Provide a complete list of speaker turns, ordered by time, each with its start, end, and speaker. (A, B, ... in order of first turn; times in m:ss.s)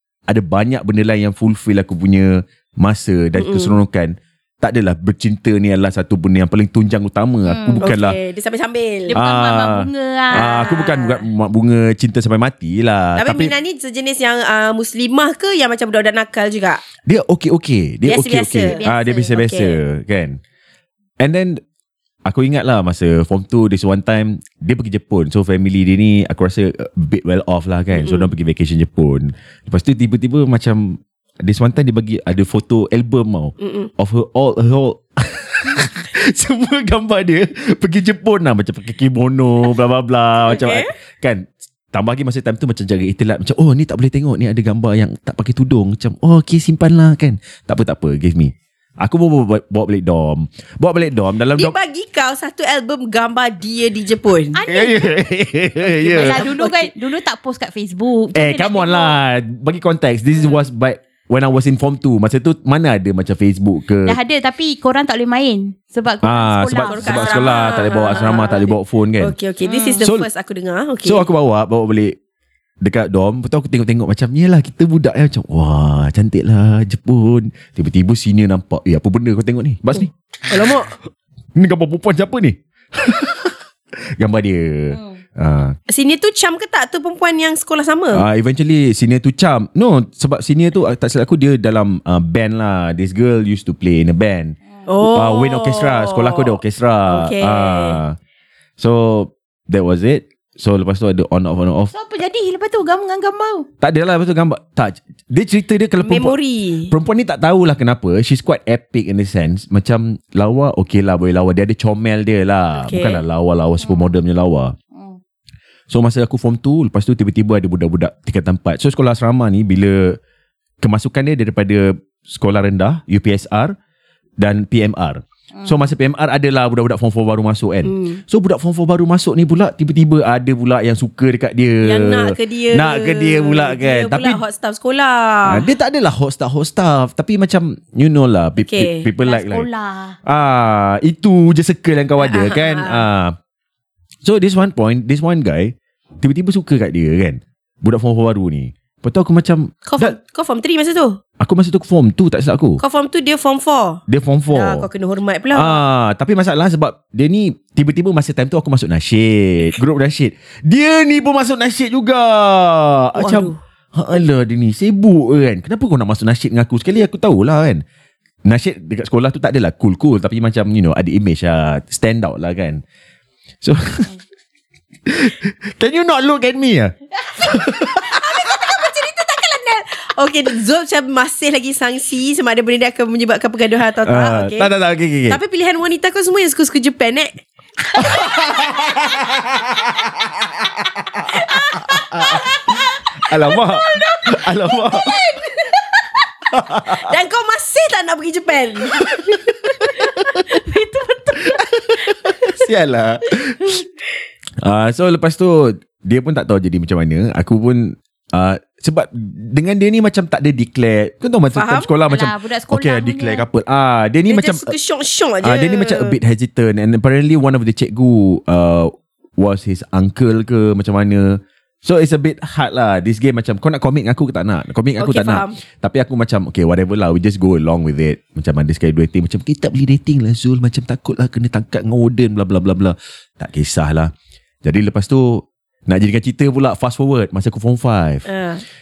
0:00.3-0:08.2 A
0:03.4-0:03.7 B
0:07.4-0:07.9 C
0:07.8-0:09.1 B
0:09.1-0:10.8 C
0:09.1-0:13.5 A
0:10.3-0:11.2 B
0:13.2-0:16.8 B
0:17.0-0:20.4 A
0:18.0-0:18.8 B
0:18.7-0:19.4 C
0:19.3-0:19.8 B
0:21.2-0:21.6 A
0:22.2-0:51.7 A
0:27.9-0:28.3 B
0:33.6-0:33.9 B
0:40.4-0:40.9 B
0:51.5-0:54.6 B
0:54.5-0:55.1 C
0:54.6-0:56.4 A
0:56.0-0:56.9 B
0:56.1-0:59.2 C
0:58.3-1:04.2 A
1:04.0-1:07.5 C
1:06.2-1:09.3 A
1:06.8-1:11.2 B
1:09.6-1:10.0 C
1:10.0-1:10.3 A
1:11.0-1:12.2 A
1:12.8-1:20.1 A
1:20.0-1:21.0 B
1:21.6-1:23.6 A
1:24.2-1:25.8 A
1:25.9-1:28.2 B
1:28.1-1:38.2 A
1:34.9-1:38.0 B
1:38.8-1:41.9 A
1:41.9-1:43.7 C
1:43.8-1:46.4 A
1:46.0-1:46.9 B
1:46.9-1:54.8 A
1:52.7-1:53.2 B
1:53.8-1:54.1 C
1:55.9-2:00.2 A
2:00.8-2:03.7 A
2:04.4-2:14.4 A
2:07.8-2:08.2 B
2:11.8-2:15.7 B
2:15.5-2:19.7 A
2:18.6-2:19.1 B
2:19.2-2:20.2 C
2:20.2-2:23.4 A
2:22.2-2:23.0 B
2:24.2-2:30.2 A
2:29.8-2:31.2 B
2:31.4-2:32.8 A
2:32.8-2:34.0 B
2:34.1-2:34.9 A
2:34.5-2:35.8 B
2:35.5-2:47.8 A
2:43.2-2:43.6 B
2:48.4-2:52.8 A
2:53.6-2:54.1 A
2:55.0-2:58.6 A
2:57.4-3:04.7 B
3:04.0-3:05.4 A
3:05.3-3:09.0 B
3:07.9-3:15.2 A
3:11.3-3:16.3 B
3:16.5-3:17.1 A
3:16.8-3:22.6 B
3:19.0-3:20.4 A
3:21.4-3:23.8 A
3:24.6-3:34.7 A
3:31.5-3:31.9 B
3:32.1-3:33.4 C
3:34.3-3:36.2 B
3:35.4-3:54.1 A
3:45.0-3:45.6 B
3:54.6-3:58.2 A
3:58.3-3:58.6 B